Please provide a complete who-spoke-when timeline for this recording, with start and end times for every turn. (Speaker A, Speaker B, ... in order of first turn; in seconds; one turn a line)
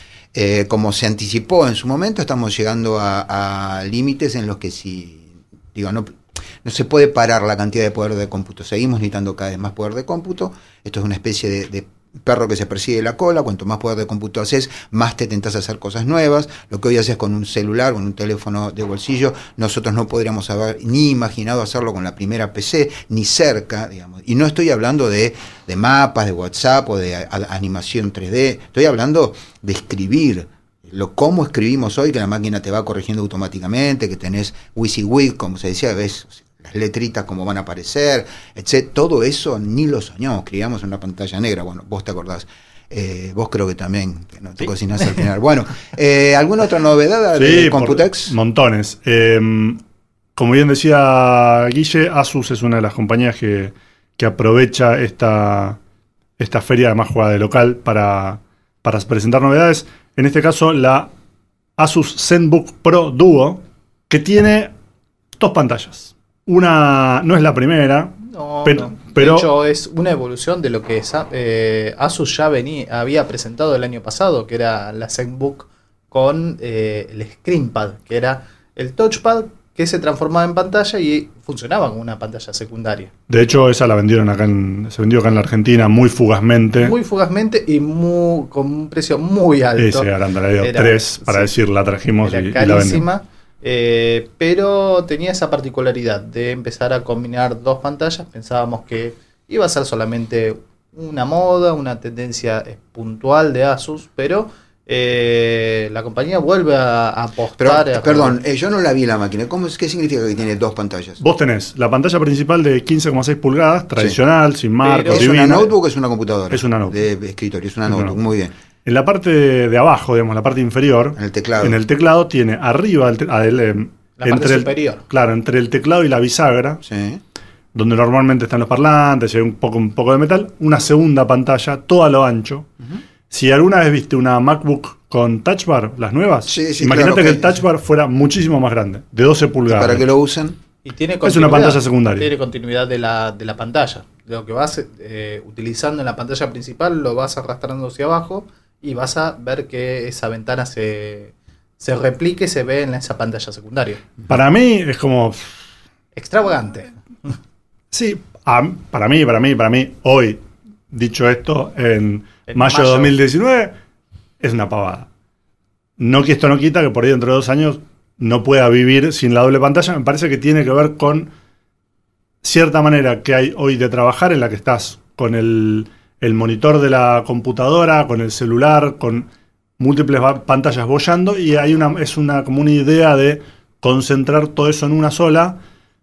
Speaker A: 0.3-48.4
Speaker B: 47.4-49.8
Speaker B: 50.4-55.8
Speaker B: 56.4-61.1
Speaker B: 61.8-64.7
Speaker B: 65.4-69.5
Speaker C: 68.2-83.1
Speaker B: 83.3-87.0
Speaker C: 86.8-91.5
Speaker B: 89.8-93.0
Speaker C: 92.2-108.4
Speaker A: 107.6-111.2
Speaker B: 111.2-115.7
Speaker C: 114.8-115.2
Speaker A: 115.1-118.5
Speaker B: 116.5-117.0
Speaker B: 117.9-118.2
Speaker B: 118.8-126.8
Speaker A: 121.2-121.8
Speaker C: 124.2-125.0
Speaker A: 126.8-127.2
Speaker B: 127.7-132.7
Speaker B: 133.3-140.0
Speaker A: 136.5-137.6
Speaker A: 139.7-140.6
Speaker C: 140.8-154.0
Speaker B: 141.2-142.3
Speaker B: 154.3-155.5
Speaker C: 156.1-157.3
Speaker B: 157.9-163.7
Speaker C: 162.5-163.2
Speaker B: 164.4-165.1
Speaker B: 166.0-171.3
Speaker B: 172.4-179.3
Speaker B: 179.8-185.6